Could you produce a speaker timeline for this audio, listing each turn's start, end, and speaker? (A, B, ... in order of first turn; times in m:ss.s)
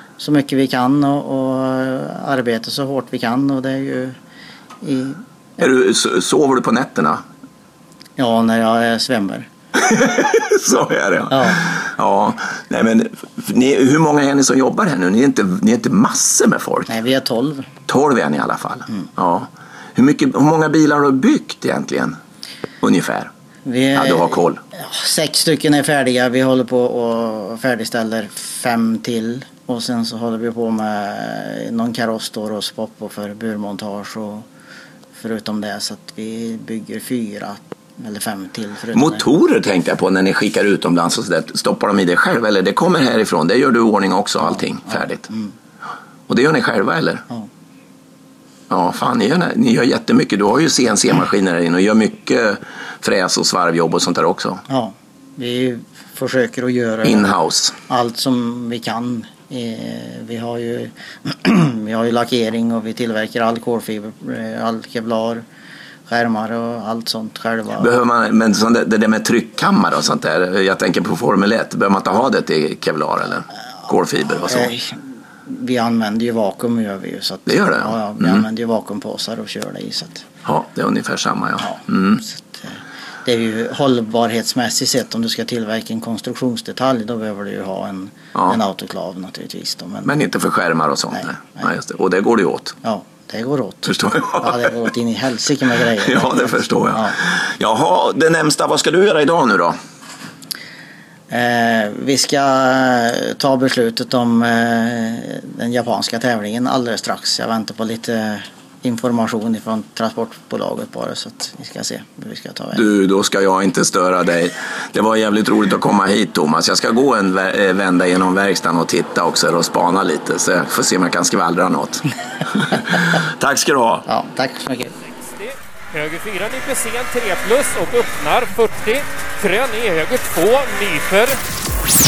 0:00.2-0:04.1 A
0:04.8-0:05.2 A
0:05.6-0:07.2 B
0:08.2-0:09.5 A
0:09.7-0:16.9 B
0:11.3-0:11.6 A
0:16.9-0:17.7 A
0:17.9-0:22.2 B
0:22.8-0:23.3 B
0:23.6-0:34.4 A
0:24.0-0:24.6 B
0:35.2-0:39.2 A
0:38.9-0:45.3 B
0:44.9-0:45.5 A
0:46.3-0:47.2 B
0:48.7-0:54.6 B
0:54.7-0:57.3 A
0:57.0-0:57.8 B
0:57.9-1:05.4 A
1:06.1-1:07.9 A
1:07.8-1:14.7 B
1:14.4-1:20.2 A
1:17.5-1:18.4 B
1:20.4-1:22.2 B
1:21.6-1:22.6 A
1:23.2-1:30.1 A
1:30.0-1:32.8 B
1:31.2-1:31.7 A
1:32.8-1:37.1 A
1:33.8-1:34.9 B
1:35.9-1:39.8 B
1:41.3-1:52.8 A
1:52.7-2:04.0 B
2:04.1-2:04.9 A
2:05.1-2:11.4 C